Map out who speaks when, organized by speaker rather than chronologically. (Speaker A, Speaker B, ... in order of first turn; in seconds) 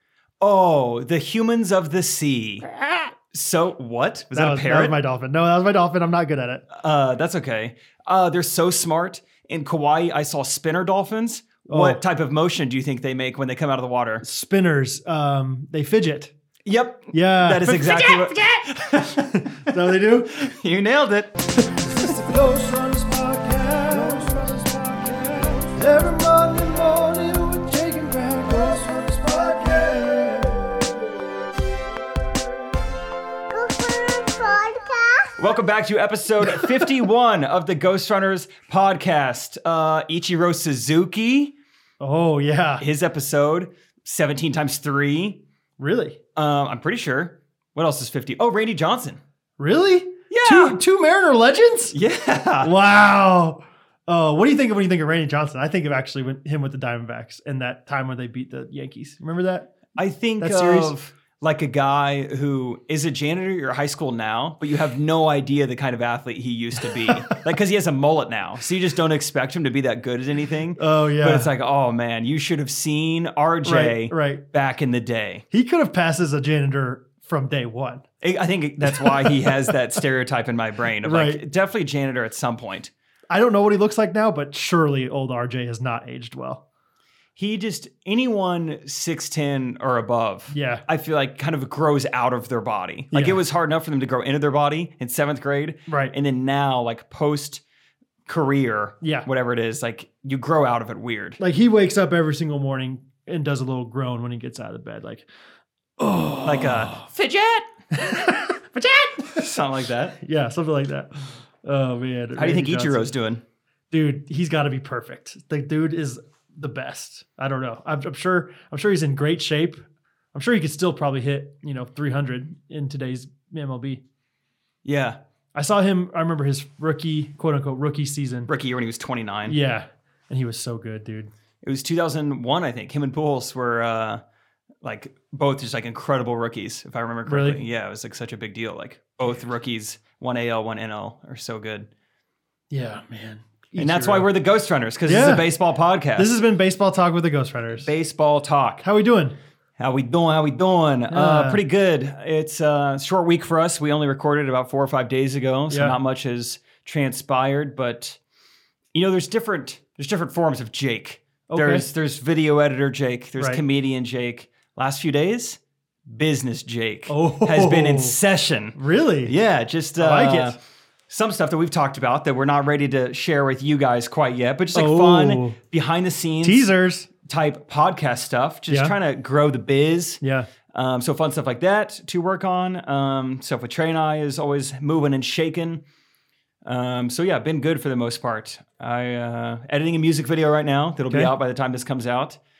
Speaker A: 0.4-2.7, 3.3-5.0, 6.7-14.2, 16.6-22.1, 35.4-41.5, 42.8-45.4, 46.3-49.2, 50.3-50.8, 51.9-52.7, 60.0-75.4, 78.2-82.9, 87.4-97.6, 98.2-101.4, 106.4-108.3, 109.2-110.2, 112.3-113.4, 124.8-125.2, 128.5-129.6, 131.6-134.2, 134.8-141.9, 143.8-146.3, 147.8-148.8, 149.8-158.2, 158.9-176.7, 177.2-185.8, 186.6-192.4
Speaker B: 4.3-6.6, 11.7-12.0, 14.2-16.3, 17.1-18.1, 19.3-20.5, 21.6-31.0, 42.0-42.8, 45.8-46.2, 49.6-51.9, 52.6-60.9, 70.8-71.5, 73.6-74.4, 75.5-78.0, 78.9-79.7, 81.0-81.4, 83.3-86.6, 90.5-90.8, 93.1-93.4, 95.9-96.1, 99.0-99.3, 101.4-105.2, 106.0-107.1, 107.9-109.5, 110.2-113.1, 113.9-119.8, 120.3-124.0, 125.5-128.5, 129.4-131.3, 137.3-137.6, 142.7-144.3, 145.0-145.5, 146.2-147.9, 148.8-149.3, 151.1-151.6, 155.7-156.0, 161.5-161.8, 167.1-168.2, 168.7-169.3, 170.0-170.6, 174.7-175.6, 176.4-177.1, 178.7-178.9, 180.2-180.5, 191.1-191.3
Speaker C: 18.0-18.4, 33.5-35.3